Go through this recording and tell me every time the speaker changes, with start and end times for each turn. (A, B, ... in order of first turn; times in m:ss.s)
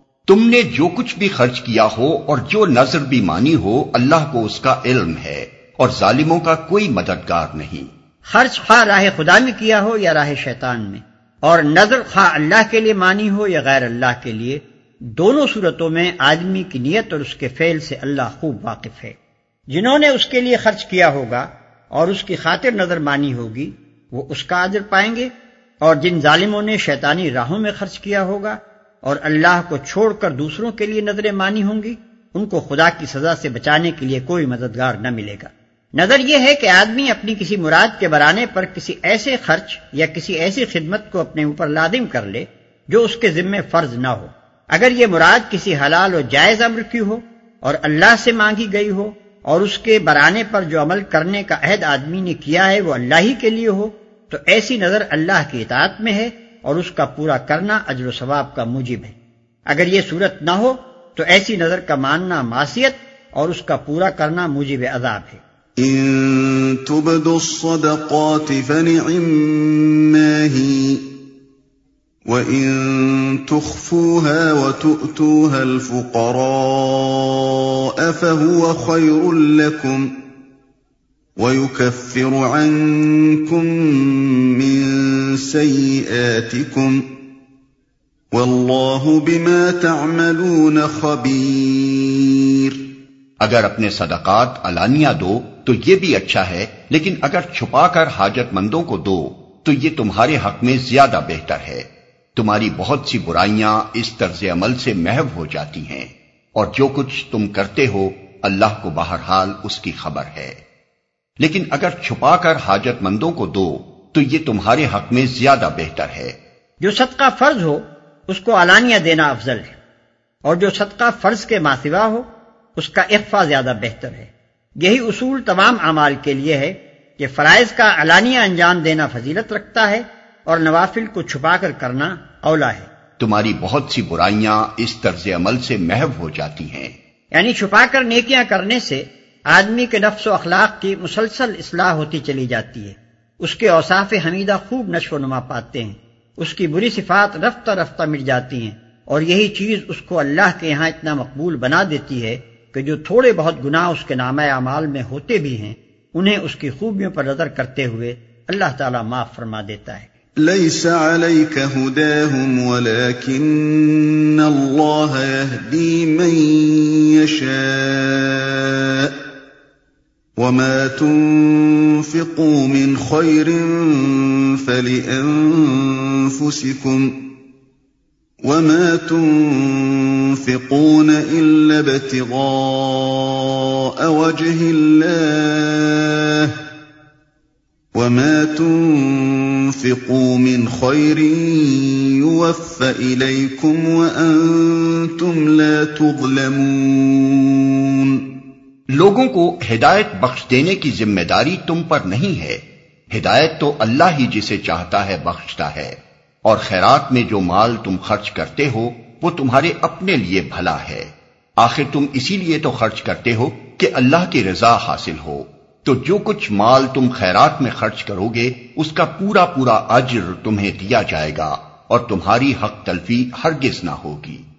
0:00.3-0:07.9 A
0:08.2-0:19.2 B
0:19.7-0:25.3 B
0:25.8-0:59.2 B
0:59.7-1:05.4 B
1:05.8-1:11.1 C
1:12.2-1:20.1 C
1:21.4-1:27.0 C
1:28.3-1:32.9 C
1:33.4-1:50.6 A
1:51.4-1:56.3 A
1:56.8-1:59.8 B
2:00.4-2:12.9 B
2:13.2-2:16.9 A
2:17.3-2:40.1 B
2:40.4-2:49.2 C
2:50.4-2:57.2 C
2:58.4-3:06.6 C
3:07.9-3:18.4 C
3:18.9-3:22.6 A
3:23.1-3:44.4 A